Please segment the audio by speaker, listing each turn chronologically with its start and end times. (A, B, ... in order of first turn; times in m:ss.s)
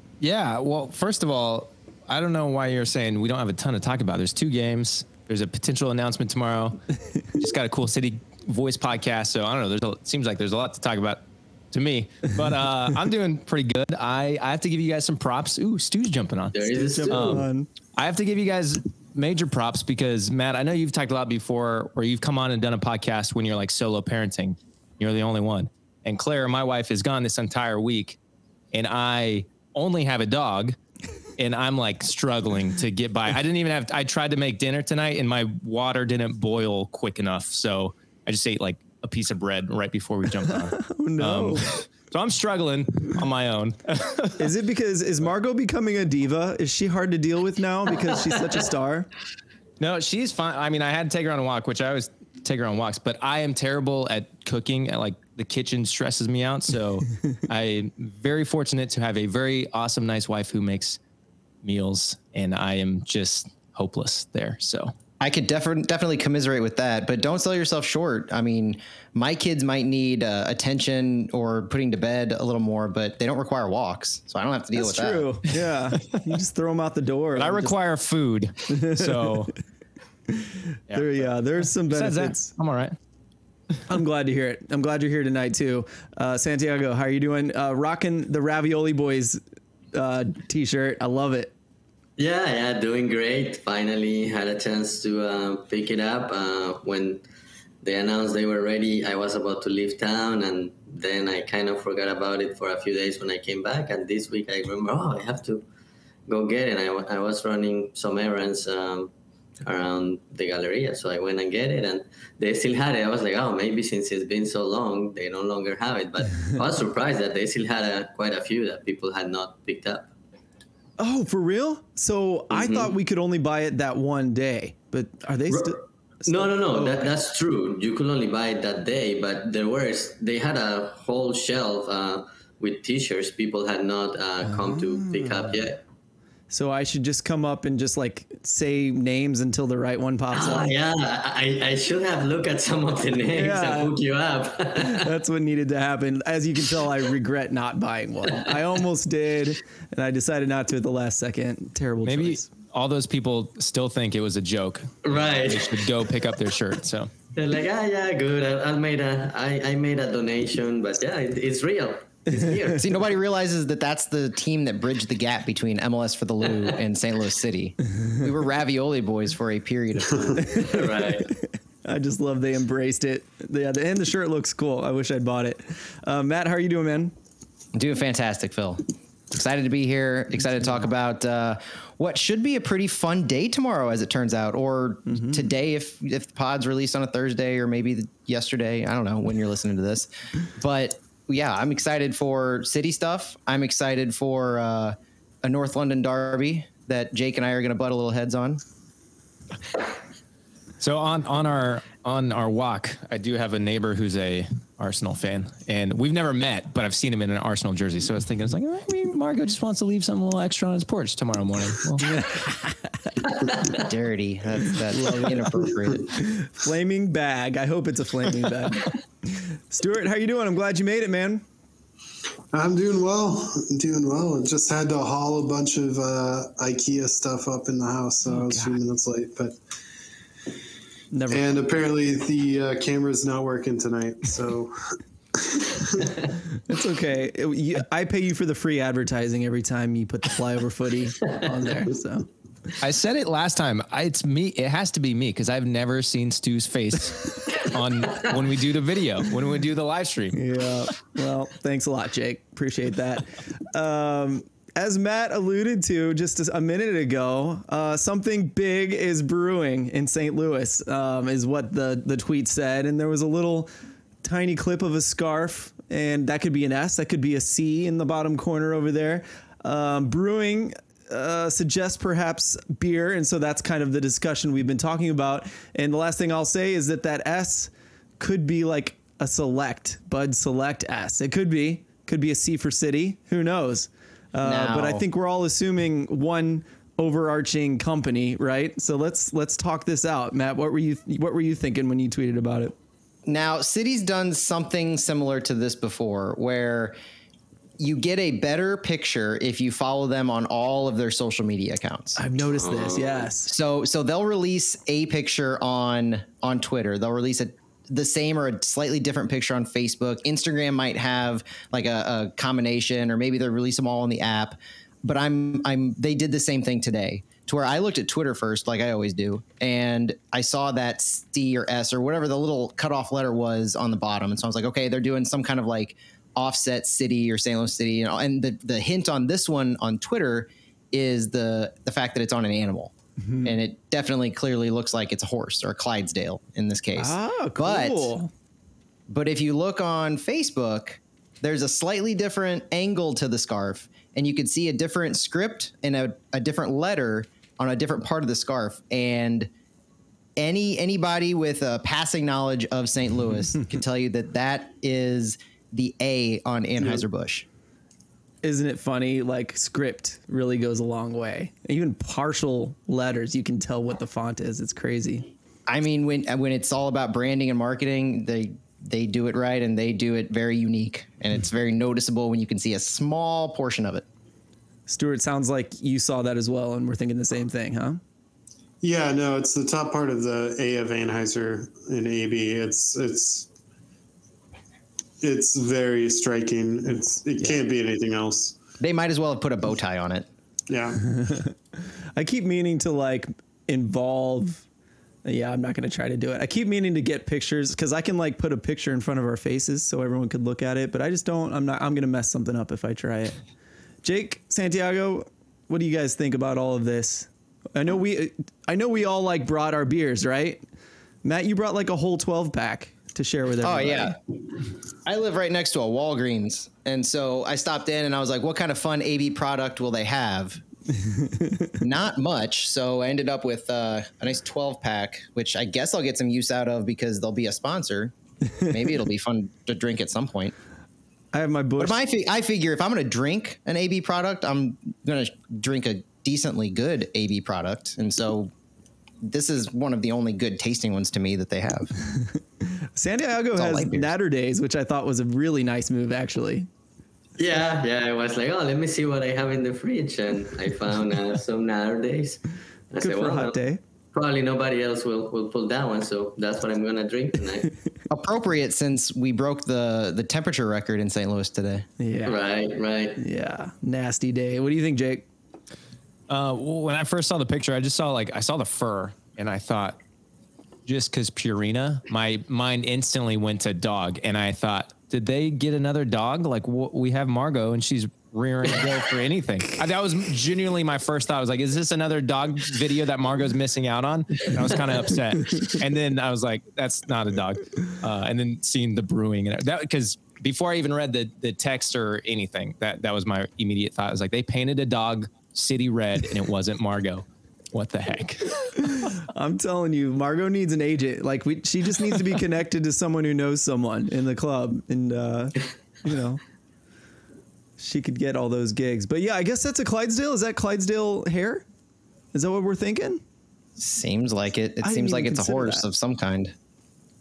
0:00.2-0:28.2 A
0:16.5-0:17.4 B
0:16.8-0:17.7 C
0:28.7-0:30.8 A
0:31.4-0:44.4 A
0:40.5-0:41.8 C
0:44.4-0:49.1 C
0:49.8-1:01.0 A
1:01.6-1:04.9 A
1:05.2-1:15.3 D
1:14.8-1:17.7 C
1:17.3-1:19.5 A
1:18.7-1:19.5 C
1:20.3-1:22.5 C
1:20.9-1:21.2 A
1:21.8-1:23.0 A
1:23.9-1:29.4 C
1:29.9-1:31.5 C
1:32.2-1:37.2 B
1:37.8-1:45.6 B
1:46.3-1:49.1 B
1:49.6-2:00.1 B
2:01.0-2:07.1 C
2:02.5-2:02.9 B
2:06.3-2:15.8 B
2:14.5-2:15.5 C
2:16.5-2:20.7 C
2:20.3-2:25.1 B
2:23.3-2:23.9 C
2:24.8-2:32.5 C
2:32.0-2:37.1 A
2:35.0-2:35.8 B
2:37.3-2:43.0 B
2:42.8-2:50.4 D
2:50.4-2:57.1 C
2:50.6-2:51.3 B
2:57.7-3:18.6 D
3:05.1-3:05.4 C
3:20.8-3:32.2 A
3:32.0-3:32.8 C
3:33.7-3:36.1 D
3:34.9-3:41.4 C
3:42.5-3:49.6 E
3:48.3-3:48.8 C
3:51.1-3:51.6 C
3:51.3-3:54.7 E
3:55.4-3:56.2 E
3:56.6-4:02.3 C
4:02.8-4:10.4 A
4:10.3-4:23.7 C
4:24.2-4:52.7 C
4:44.4-4:45.0 D
4:53.3-4:56.9 D
4:57.8-5:02.2 D
5:02.2-5:03.5 C
5:02.6-5:03.3 B
5:03.4-5:38.1 D
5:33.2-5:33.5 C
5:37.0-5:38.3 C
5:39.1-5:49.5 D
5:50.4-5:57.4 D
5:58.4-6:05.3 C
6:05.7-6:14.0 D
6:14.9-6:18.0 C
6:18.8-6:23.5 E
6:25.2-6:28.6 E
6:28.8-6:30.3 D
6:30.7-6:31.0 E
6:31.0-6:31.6 C
6:32.2-6:34.6 C
6:35.2-6:43.4 C
6:44.0-6:50.6 C
6:51.2-6:54.1 C
6:53.6-6:54.2 D
6:55.0-7:00.6 D
7:00.9-7:01.7 C
7:01.8-7:08.1 D
7:08.6-7:10.5 D
7:11.3-7:12.0 C
7:11.8-7:18.5 D
7:19.2-7:21.9 D
7:22.9-7:26.7 C
7:23.5-7:24.1 D
7:27.4-7:33.6 B
7:33.0-7:33.8 C
7:34.1-7:37.7 B
7:38.1-7:41.8 D
7:42.0-7:42.4 C
7:42.2-7:43.2 B
7:43.2-7:45.2 C
7:46.3-7:50.0 A
7:50.8-8:19.1 A
8:19.0-8:26.4 C
8:27.8-8:31.6 C
8:32.3-8:33.2 C
8:33.8-8:36.5 D
8:34.8-8:35.9 C